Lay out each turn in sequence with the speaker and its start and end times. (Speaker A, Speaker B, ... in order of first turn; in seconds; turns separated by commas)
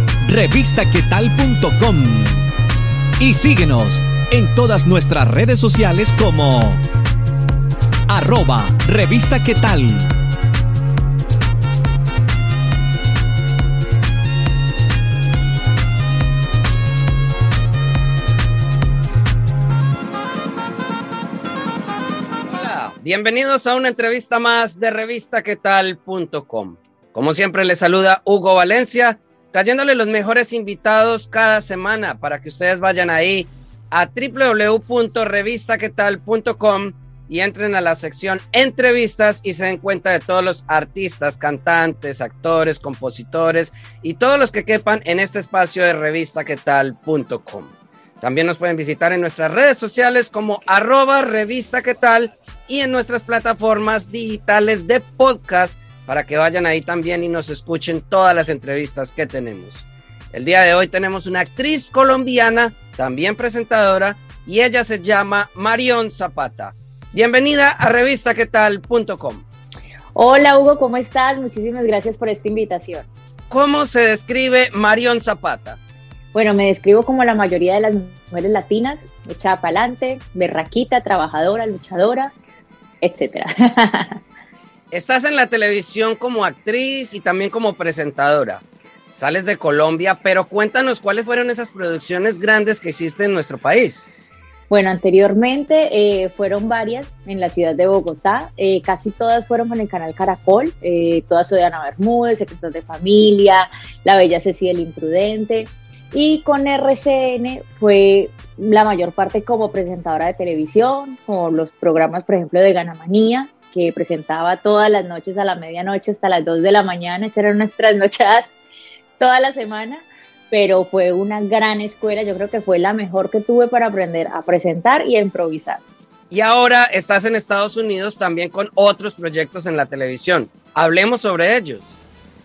Speaker A: 0.2-2.4, Speaker A: 3.2-6.8, Speaker A: 8.1-10.1, Speaker B: 22.5-69.4, Speaker C: 70.1-73.1, Speaker B: 73.5-75.8, Speaker C: 76.3-82.3, Speaker C: 83.0-84.2, Speaker B: 84.9-94.1, Speaker C: 94.7-118.5, Speaker C: 119.2-125.8, Speaker B: 126.3-132.0